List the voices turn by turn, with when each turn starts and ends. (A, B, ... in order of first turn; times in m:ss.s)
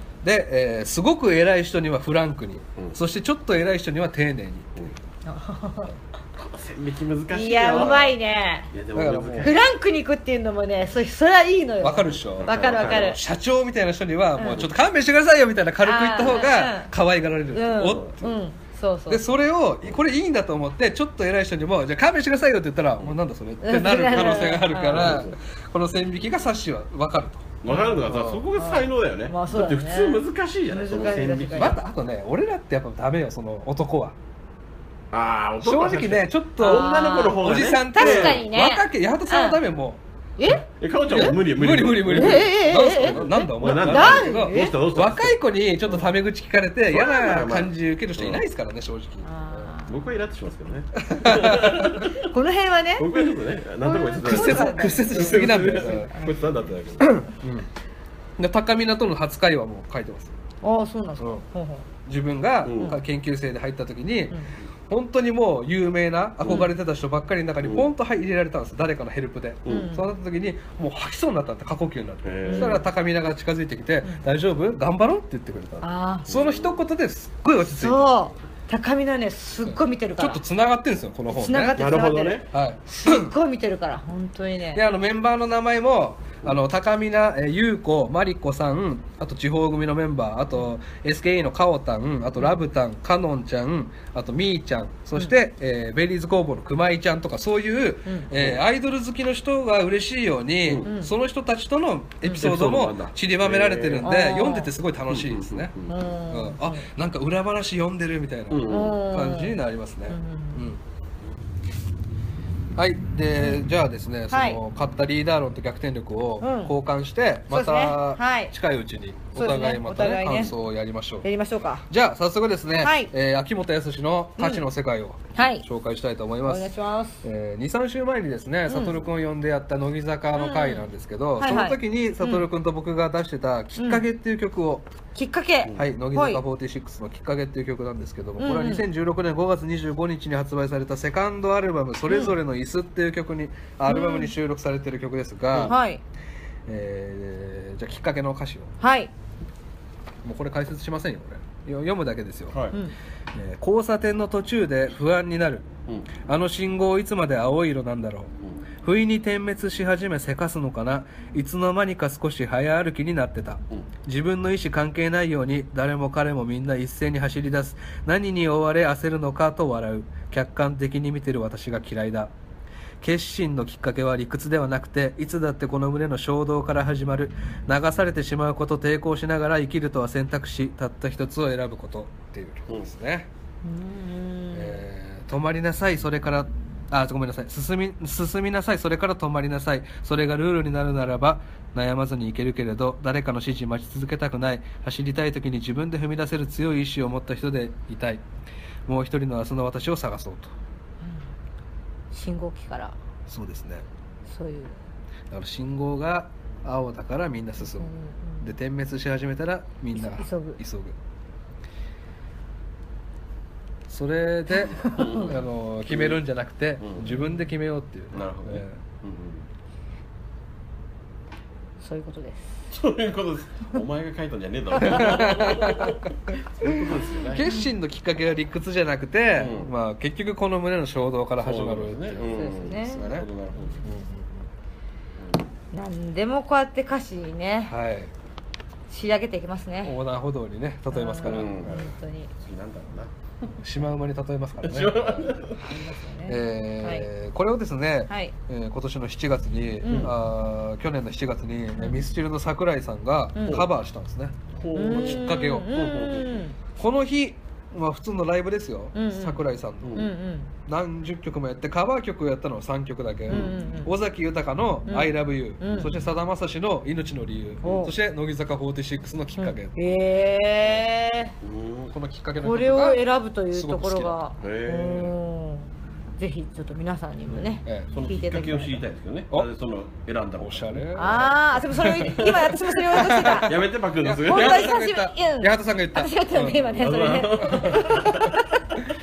0:00.2-0:04.7 A
0:05.3-0:05.9 B
0:06.4-0:08.2 C
0:07.3-0:08.7 B
0:08.7-0:09.6 C
0:08.9-0:09.6 A
0:09.4-0:13.2 B
0:11.8-0:18.3 A
0:12.4-0:13.2 C
0:14.4-0:14.6 B
0:15.8-0:16.9 B
0:17.5-0:19.2 B
0:17.8-0:18.1 C
0:19.1-0:28.4 A
0:23.6-0:25.2 B
0:24.1-0:25.4 C
0:27.6-0:31.8 C
0:27.7-0:28.0 B
0:28.6-0:31.8 B
0:31.6-0:34.2 A
0:35.1-0:38.4 C
0:35.6-0:40.0 A
0:36.6-0:39.6 B
0:40.4-0:40.6 B
0:40.8-0:46.1 C
0:41.1-0:49.3 A
0:42.1-0:43.2 B
0:43.8-0:44.8 B
0:46.9-0:48.4 C
0:49.2-0:50.1 B
0:49.9-0:52.2 C
0:51.0-0:52.1 A
0:52.2-0:53.1 B
0:53.0-0:57.2 C
0:53.8-0:56.4 B
0:54.2-0:56.1 A
0:57.0-0:57.7 A
0:58.4-1:00.3 A
1:00.6-1:01.9 B
1:01.2-1:01.4 A
1:02.1-1:04.4 A
1:02.6-1:03.0 C
1:04.9-1:18.3 A
1:06.4-1:06.7 C
1:07.6-1:07.9 C
1:09.6-1:09.9 C
1:09.7-1:10.1 B
1:12.2-1:12.8 C
1:12.4-1:12.8 B
1:15.8-1:16.3 B
1:16.3-1:16.8 C
1:17.8-1:20.4 B
1:19.6-1:21.8 A
1:21.3-1:24.8 B
1:21.8-1:22.5 C
1:22.5-1:23.3 A
1:24.7-1:45.7 A
1:38.3-1:38.6 C
1:40.8-1:41.1 B
1:42.3-1:44.1 C
1:44.0-1:44.7 B
1:45.1-1:46.0 C
1:45.9-1:46.9 B
1:46.3-1:50.8 A
1:48.5-1:49.0 C
1:48.7-1:49.6 B
1:50.1-1:50.7 B
1:52.8-2:01.2 A
1:53.4-1:53.7 B
1:54.3-1:54.6 B
1:56.4-1:56.7 B
1:57.5-1:58.5 B
1:59.4-2:00.5 B
2:01.2-2:01.8 B
2:01.9-2:06.7 A
2:02.8-2:03.1 B
2:04.4-2:04.6 B
2:05.4-2:05.6 B
2:06.4-2:07.2 B
2:07.2-2:14.9 A
2:08.7-2:09.0 B
2:10.4-2:10.9 B
2:11.4-2:12.5 B
2:13.8-2:14.0 B
2:15.2-2:16.4 B
2:15.8-2:25.8 A
2:18.4-2:18.9 B
2:22.1-2:22.4 B
2:23.9-2:24.3 B
2:25.6-2:26.0 B
2:26.7-2:28.7 A
2:28.8-2:29.1 B
2:30.2-2:32.6 A
2:32.5-2:32.8 C
2:33.4-2:35.7 A
2:36.2-2:38.3 A
2:38.8-2:52.3 A
2:53.0-3:03.3 A
3:03.6-3:04.8 B
3:04.5-3:18.2 A
3:18.9-3:20.5 A
3:22.1-3:23.0 B
3:23.3-3:23.8 A
3:24.3-3:24.8 B
3:25.3-3:31.0 A
3:27.8-3:28.5 B
3:30.0-3:30.6 B
3:33.9-3:38.8 A
3:34.7-3:35.3 B
3:34.8-3:36.2 C
3:36.8-3:37.1 C
3:37.0-3:37.4 B
3:38.1-3:39.4 C
3:41.8-3:42.6 B
3:42.7-3:47.5 C
3:44.8-3:46.0 A
3:46.6-3:52.4 A
3:47.4-3:47.7 B
3:49.4-3:49.7 C
3:51.4-3:53.8 C
3:52.3-3:53.8 B
3:53.0-3:53.3 A
3:53.8-3:54.4 A
3:55.7-3:57.7 B
3:57.7-3:58.1 A
3:58.9-4:00.0 B
3:59.8-4:01.7 A
4:00.9-4:02.3 B
4:01.2-4:01.9 C
4:02.4-4:03.5 C
4:03.6-4:05.4 A
4:04.6-4:05.6 C
4:05.6-4:07.1 B
4:06.3-4:15.7 A
4:08.1-4:08.3 B
4:09.8-4:10.1 B
4:09.9-4:10.2 C
4:11.8-4:12.0 B
4:13.4-4:13.6 B
4:14.6-4:16.5 C
4:14.7-4:16.6 B
4:16.8-4:20.1 A
4:19.0-4:19.4 B
4:19.8-4:20.1 C
4:20.0-4:20.5 B
4:20.7-4:29.8 A
4:23.3-4:23.6 C
4:23.3-4:23.9 B
4:24.9-4:25.9 B
4:27.6-4:27.9 B
4:29.4-4:31.3 B
4:31.4-4:31.9 C
4:31.9-4:34.2 A
4:32.4-4:38.8 B
4:34.4-4:35.1 C
4:37.6-4:37.9 A
4:37.9-4:41.3 C
4:40.4-4:46.8 A
4:41.0-4:43.6 B
4:43.3-4:44.8 C
4:44.2-4:48.7 B
4:46.6-4:48.3 C